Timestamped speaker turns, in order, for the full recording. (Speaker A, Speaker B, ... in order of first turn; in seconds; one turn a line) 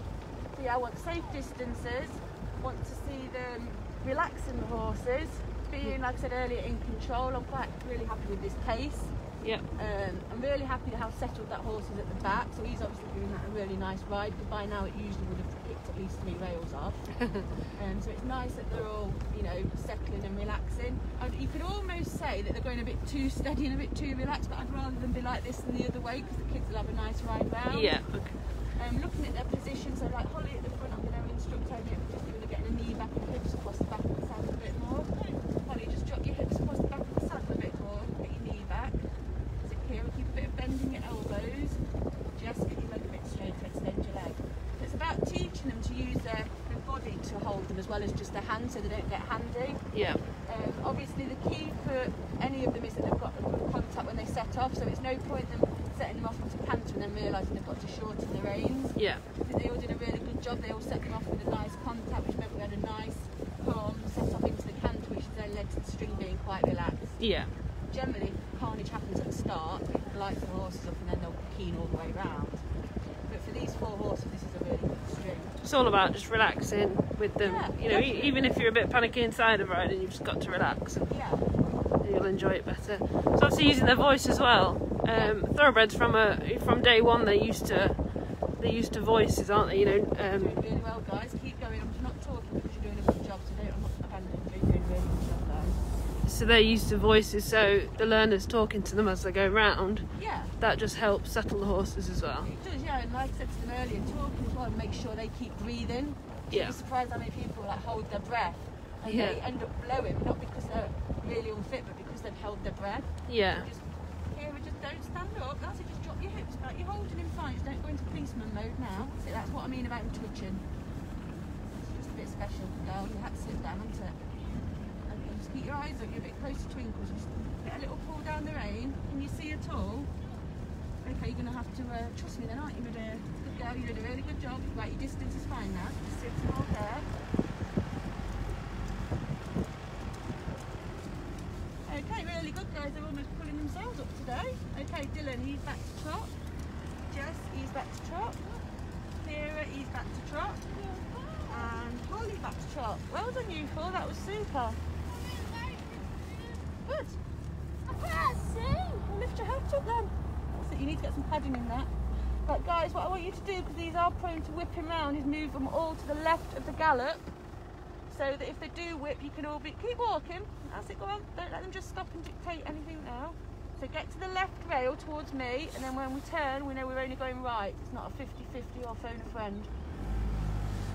Speaker A: 0.5-9.1
Speaker B: 9.4-9.7
Speaker A: 9.7-17.1
Speaker B: 17.2-17.4
Speaker A: 17.7-28.0
Speaker B: 27.7-28.4
Speaker A: 28.7-39.0
Speaker A: 39.6-41.8
Speaker A: 42.3-49.8
Speaker B: 49.9-50.2
Speaker A: 50.4-67.2
Speaker B: 59.0-59.2
Speaker B: 67.2-67.5
Speaker A: 67.9-72.6
Speaker A: 73.3-75.5
Speaker B: 75.6-81.1
Speaker A: 77.4-78.5
Speaker A: 81.0-81.5
Speaker B: 82.0-88.0
Speaker B: 88.6-90.6
Speaker A: 90.2-95.8
Speaker B: 96.2-100.1
Speaker A: 100.2-100.5
Speaker B: 100.6-102.5
Speaker A: 102.4-120.6
Speaker B: 106.5-106.8
Speaker B: 109.0-109.4
Speaker B: 113.3-113.7
Speaker A: 121.8-124.2
Speaker A: 125.1-130.1
Speaker A: 131.0-137.1
Speaker A: 141.8-146.3
Speaker A: 147.1-148.6
Speaker A: 149.2-150.6
Speaker C: 150.7-151.6
Speaker A: 151.5-154.8
Speaker C: 155.1-156.6
Speaker A: 156.8-157.2
Speaker C: 157.9-158.8
Speaker A: 159.0-161.9
Speaker A: 162.4-167.3
Speaker A: 168.1-179.7